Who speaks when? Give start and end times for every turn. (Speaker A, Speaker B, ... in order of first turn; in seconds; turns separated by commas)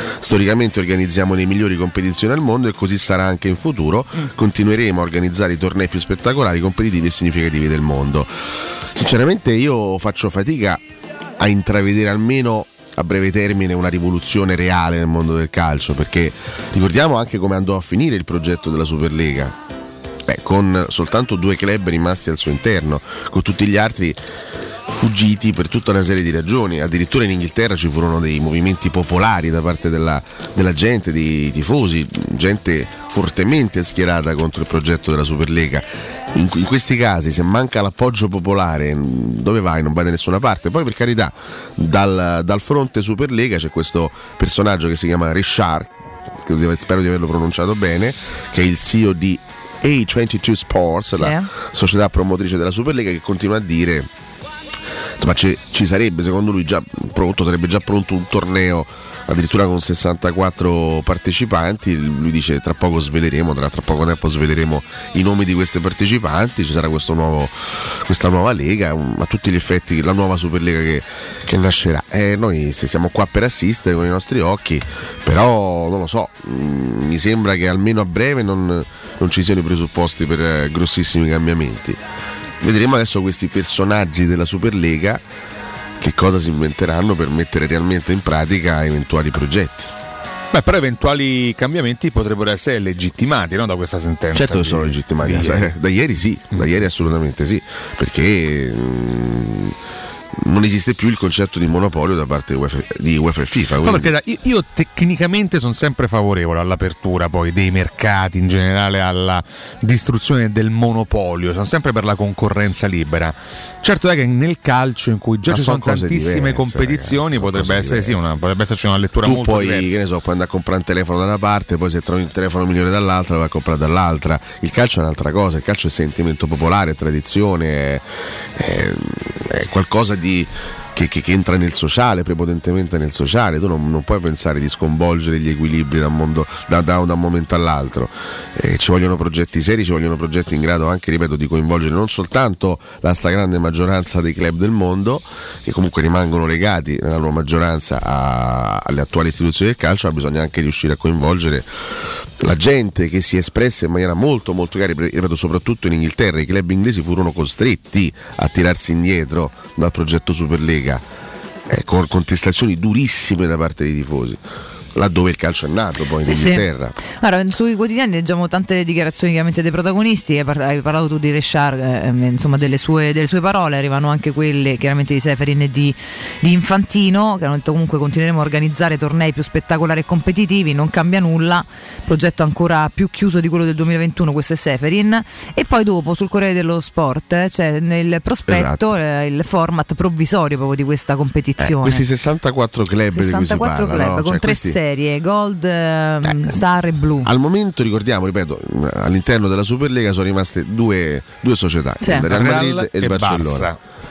Speaker A: 0.2-10.8, Speaker A: 11.4-19.6, Speaker A: 20.3-24.2, Speaker A: 24.9-45.9, Speaker A: 46.4-54.1, Speaker B: 51.1-51.5, Speaker A: 55.2-82.0, Speaker A: 82.6-85.2, Speaker A: 86.0-89.9, Speaker C: 90.5-95.7, Speaker A: 94.3-99.8, Speaker A: 100.4-104.1, Speaker C: 103.8-120.0, Speaker A: 115.4-118.3, Speaker A: 119.2-128.1, Speaker A: 128.6-151.7, Speaker A: 152.4-161.1, Speaker A: 161.7-164.4, Speaker A: 164.9-166.9, Speaker B: 166.2-192.0, Speaker A: 188.5-188.9, Speaker A: 191.6-194.8, Speaker B: 193.1-197.3, Speaker A: 197.2-203.7, Speaker C: 202.3-203.8